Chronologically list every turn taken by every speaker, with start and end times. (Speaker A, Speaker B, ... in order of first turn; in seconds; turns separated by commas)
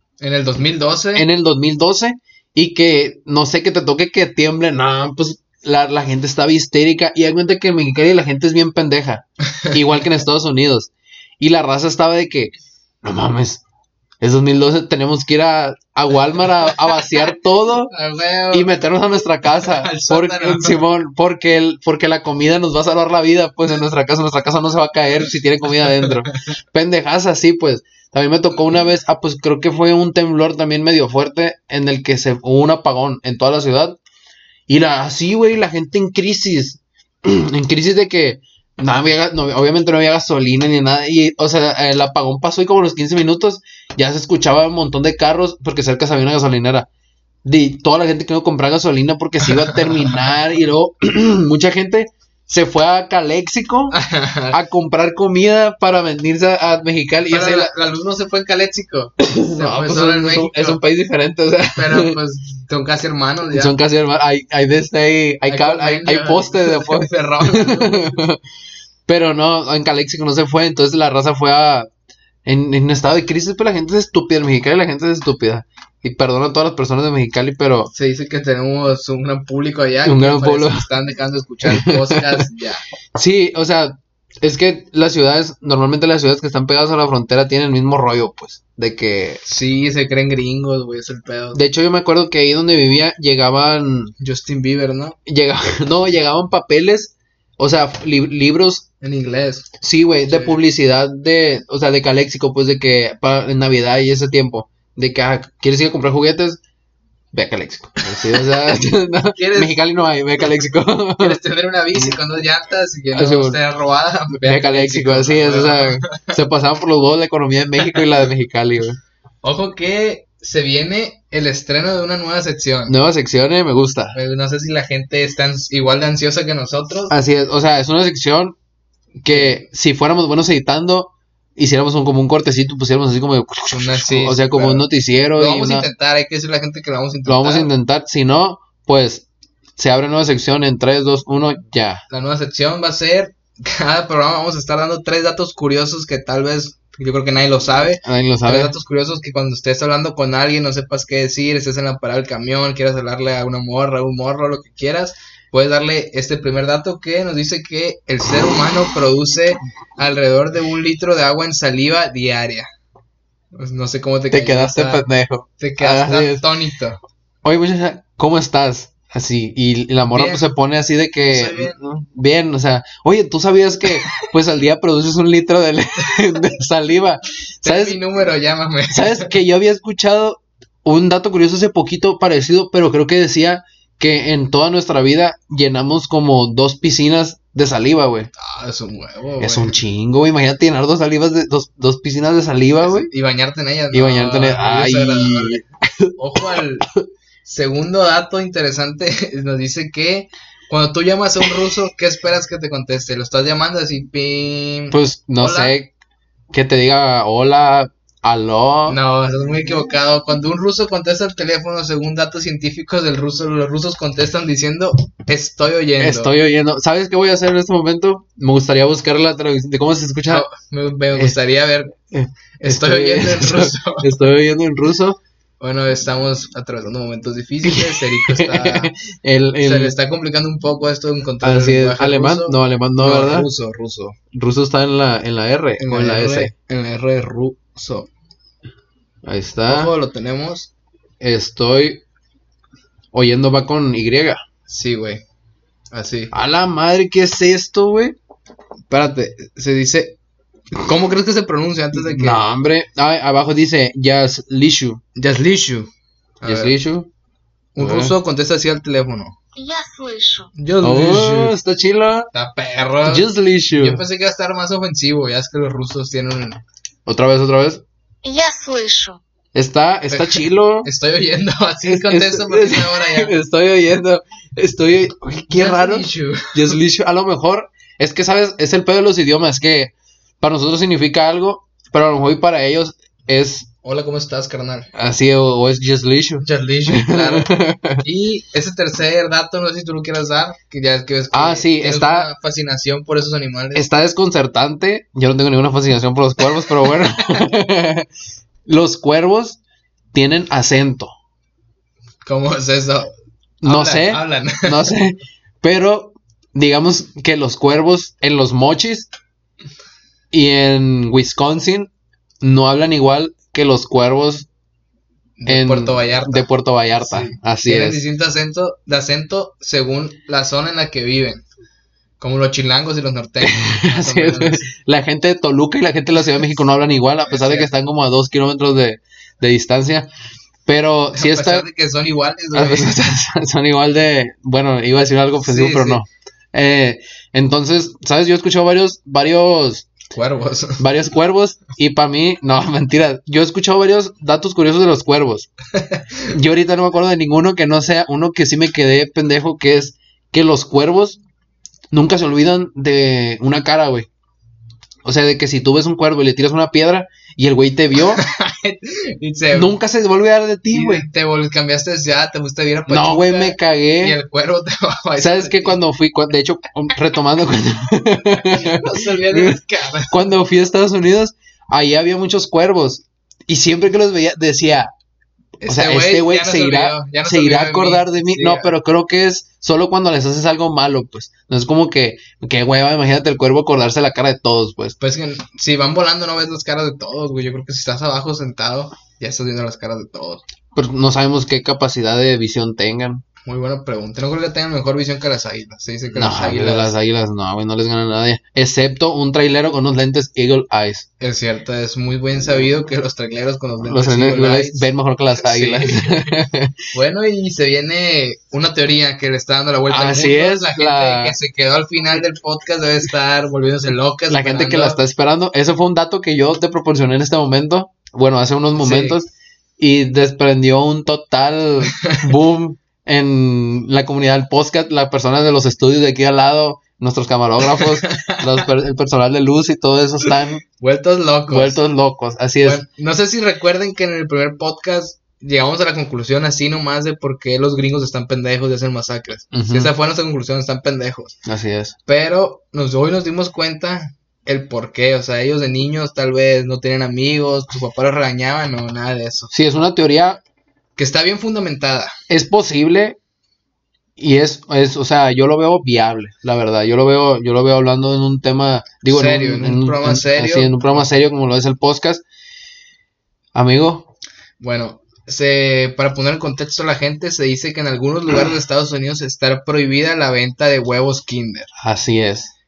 Speaker A: 0.2-1.3, Speaker B: 1.1-13.6, Speaker B: 14.2-17.9, Speaker A: 17.9-18.8, Speaker B: 18.5-34.0, Speaker A: 19.5-20.8, Speaker B: 34.7-46.9, Speaker B: 47.4-54.0, Speaker A: 49.5-50.2, Speaker A: 53.9-54.6, Speaker B: 54.5-57.7, Speaker A: 57.3-60.8, Speaker B: 59.2-62.2, Speaker A: 61.8-63.7, Speaker B: 63.5-68.4, Speaker A: 65.5-68.2, Speaker B: 69.1-71.9, Speaker B: 72.5-77.9, Speaker A: 77.9-82.8, Speaker B: 80.0-80.9, Speaker B: 81.7-82.4, Speaker B: 83.2-89.4, Speaker A: 89.5-91.6, Speaker B: 91.5-94.1, Speaker A: 94.2-95.2, Speaker B: 95.3-98.9, Speaker A: 99.0-99.7, Speaker B: 99.8-106.6, Speaker A: 100.3-100.6, Speaker B: 107.3-111.4, Speaker A: 108.1-108.7, Speaker A: 109.4-109.8, Speaker A: 111.2-116.3, Speaker B: 113.1-113.6, Speaker B: 114.4-119.0, Speaker A: 119.4-123.0, Speaker B: 122.9-124.2, Speaker A: 124.1-127.1, Speaker B: 127.1-128.6, Speaker B: 129.2-135.9, Speaker A: 129.3-129.6, Speaker A: 133.7-137.7, Speaker B: 137.3-139.3, Speaker B: 139.8-142.0, Speaker A: 142.1-162.7, Speaker B: 148.0-148.7, Speaker A: 163.6-165.0, Speaker B: 164.3-166.4, Speaker A: 165.6-167.0, Speaker B: 167.4-178.0, Speaker A: 170.1-170.5, Speaker A: 171.3-171.8, Speaker A: 177.6-179.3, Speaker B: 178.9-188.3, Speaker A: 188.4-189.8, Speaker B: 189.4-193.1, Speaker A: 192.8-195.6, Speaker B: 193.9-196.6, Speaker A: 196.2-196.9, Speaker A: 197.4-205.7, Speaker B: 204.9-205.9, Speaker B: 206.5-209.0, Speaker A: 208.9-216.3, Speaker B: 216.0-220.5, Speaker A: 220.3-222.0, Speaker B: 222.1-225.2, Speaker A: 222.6-224.1, Speaker A: 225.6-228.9, Speaker B: 227.7-229.9, Speaker A: 229.6-234.2, Speaker B: 231.4-233.5, Speaker B: 234.3-236.5, Speaker A: 235.8-238.1, Speaker B: 239.2-239.9, Speaker A: 239.7-240.7, Speaker B: 241.2-242.0, Speaker B: 243.1-244.4, Speaker A: 244.7-245.2, Speaker A: 245.9-246.3, Speaker B: 246.3-248.2, Speaker A: 248.9-250.2, Speaker A: 250.7-252.4, Speaker B: 251.9-255.0, Speaker A: 255.2-255.9, Speaker A: 256.4-256.8, Speaker B: 256.4-257.1, Speaker A: 257.8-259.4, Speaker B: 257.8-258.1, Speaker C: 259.6-260.5, Speaker A: 260.6-261.6, Speaker B: 260.8-262.3, Speaker A: 262.3-266.6, Speaker B: 263.1-264.0, Speaker B: 267.1-267.8, Speaker C: 268.2-269.2, Speaker B: 269.5-270.9, Speaker A: 270.1-273.4, Speaker B: 271.9-283.7, Speaker A: 275.5-276.8, Speaker A: 283.8-284.9, Speaker B: 284.9-288.0, Speaker A: 286.4-293.9, Speaker B: 291.3-292.3, Speaker B: 293.8-298.1, Speaker B: 298.7-299.6, Speaker B: 300.1-301.1, Speaker A: 302.2-303.1, Speaker B: 303.6-309.1, Speaker A: 303.6-304.9, Speaker B: 310.3-311.9, Speaker B: 312.4-314.5, Speaker A: 315.4-321.4, Speaker B: 315.5-318.0, Speaker A: 322.2-324.7, Speaker B: 323.4-330.1, Speaker A: 327.3-327.7, Speaker B: 330.7-331.7, Speaker A: 331.1-333.2, Speaker B: 332.6-339.9, Speaker A: 335.4-336.0, Speaker A: 340.1-340.8, Speaker B: 340.8-345.5, Speaker B: 346.3-351.2, Speaker B: 351.9-354.1, Speaker B: 355.0-358.2, Speaker A: 358.1-359.7, Speaker B: 359.5-361.1, Speaker A: 360.7-365.8, Speaker B: 362.9-364.2, Speaker B: 365.2-369.6, Speaker A: 368.4-370.2, Speaker B: 370.1-374.9, Speaker A: 375.6-378.7, Speaker B: 375.7-385.0, Speaker A: 385.0-390.4, Speaker B: 390.8-393.2, Speaker A: 393.5-396.9, Speaker B: 396.1-401.1, Speaker A: 401.2-404.9, Speaker B: 403.8-406.7, Speaker A: 405.4-406.3, Speaker A: 406.9-415.0, Speaker B: 409.9-411.4, Speaker B: 414.3-430.6, Speaker A: 418.8-419.2, Speaker A: 421.9-422.3, Speaker A: 427.7-428.4, Speaker A: 430.8-431.8, Speaker B: 431.5-432.8, Speaker A: 432.6-441.4, Speaker B: 439.5-439.9, Speaker B: 441.5-441.9, Speaker A: 442.1-449.5, Speaker B: 449.5-450.4, Speaker A: 451.0-452.2, Speaker B: 452.3-453.2, Speaker B: 454.2-462.2, Speaker A: 459.1-461.1, Speaker B: 463.5-464.1, Speaker A: 464.6-471.7, Speaker B: 471.8-472.5